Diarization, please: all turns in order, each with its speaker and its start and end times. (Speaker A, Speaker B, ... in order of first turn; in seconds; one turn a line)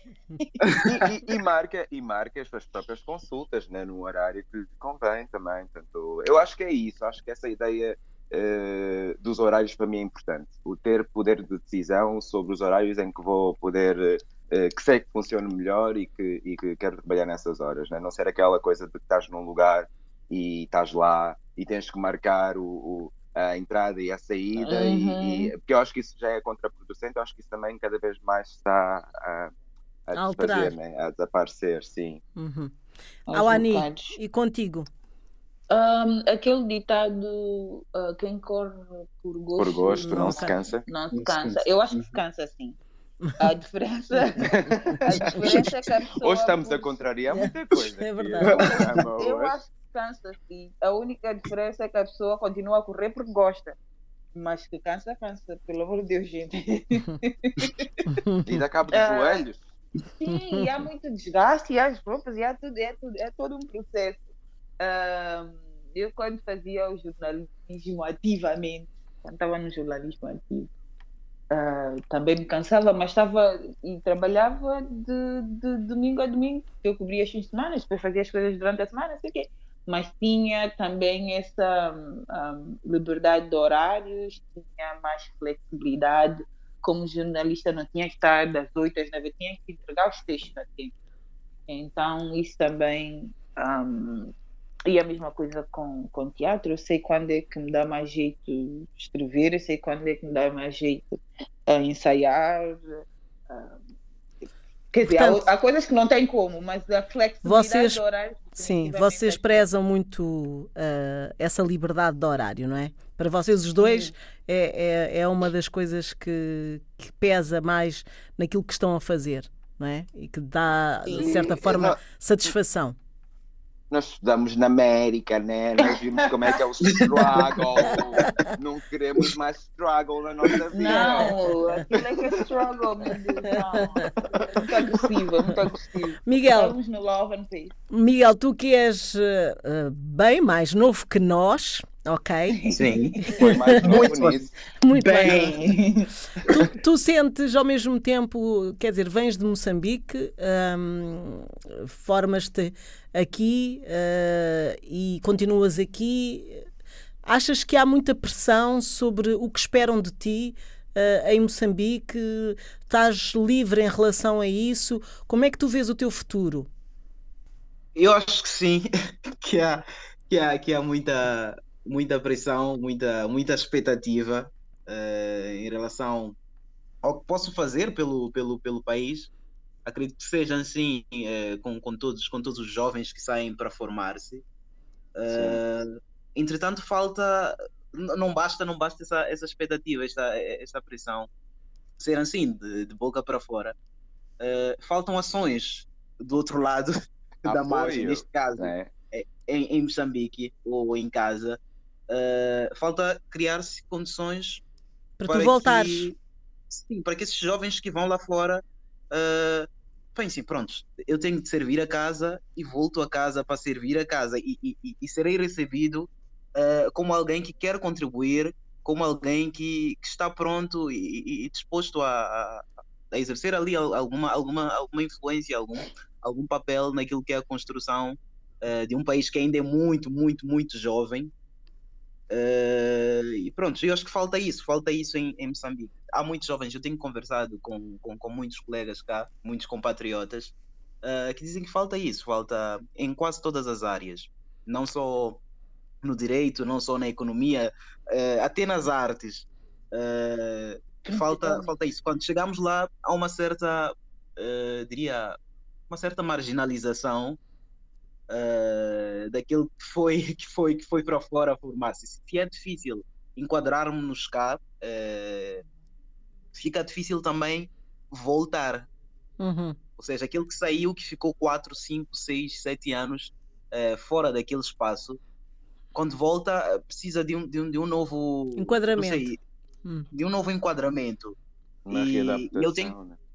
Speaker A: 0.4-0.9
Speaker B: 0.6-0.9
Speaker C: 0.8-29.5
Speaker A: 24.6-25.5
Speaker C: 30.1-32.2
Speaker D: 30.1-30.7
Speaker D: 32.4-32.7
Speaker A: 33.3-34.2
Speaker D: 33.3-34.9
Speaker A: 35.7-42.8
Speaker C: 39.6-40.9
Speaker D: 40.0-40.5
Speaker B: 41.1-42.2
Speaker A: 43.4-47.0
Speaker C: 44.4-45.4
Speaker C: 46.2-49.5
Speaker D: 47.3-48.6
Speaker A: 49.2-53.8
Speaker A: 54.3-57.9
Speaker D: 58.1-58.5
Speaker C: 58.5-59.6
Speaker A: 58.9-59.4
Speaker A: 60.0-64.2
Speaker D: 60.2-60.6
Speaker A: 64.8-70.7
Speaker A: 71.5-90.9
Speaker A: 91.7-94.3
Speaker A: 94.8-103.9
Speaker A: 104.9-109.7
Speaker D: 105.0-105.4
Speaker D: 107.4-108.0
Speaker D: 108.6-123.0
Speaker A: 113.8-114.1
Speaker A: 121.1-121.5
Speaker C: 121.2-122.0
Speaker C: 123.9-132.2
Speaker B: 126.9-127.6
Speaker A: 130.7-137.7
Speaker B: 130.9-131.2
Speaker D: 136.2-136.7
Speaker D: 137.9-142.6
Speaker A: 142.5-143.2
Speaker B: 142.7-143.2
Speaker C: 143.3-144.5
Speaker D: 143.3-143.8
Speaker B: 143.8-145.6
Speaker D: 144.8-145.5
Speaker A: 145.2-146.1
Speaker D: 146.4-156.6
Speaker D: 157.2-166.7
Speaker B: 167.9-168.9
Speaker B: 169.4-176.3
Speaker B: 177.0-179.3
Speaker B: 179.8-184.4
Speaker B: 185.2-191.3
Speaker C: 185.3-185.6
Speaker B: 192.0-193.8
Speaker B: 194.4-204.6
Speaker C: 197.4-198.9
Speaker D: 205.2-206.1
Speaker B: 205.2-206.2
Speaker B: 206.7-231.3
Speaker B: 232.3-245.4
Speaker B: 246.0-255.4
Speaker A: 251.1-251.7
Speaker B: 255.9-257.4
Speaker B: 258.3-265.6
Speaker B: 266.5-268.9
Speaker D: 269.4-269.8
Speaker B: 270.0-275.2
Speaker B: 275.9-279.4
Speaker D: 278.6-279.3
Speaker B: 280.1-281.4
Speaker C: 281.9-283.2
Speaker B: 281.9-282.9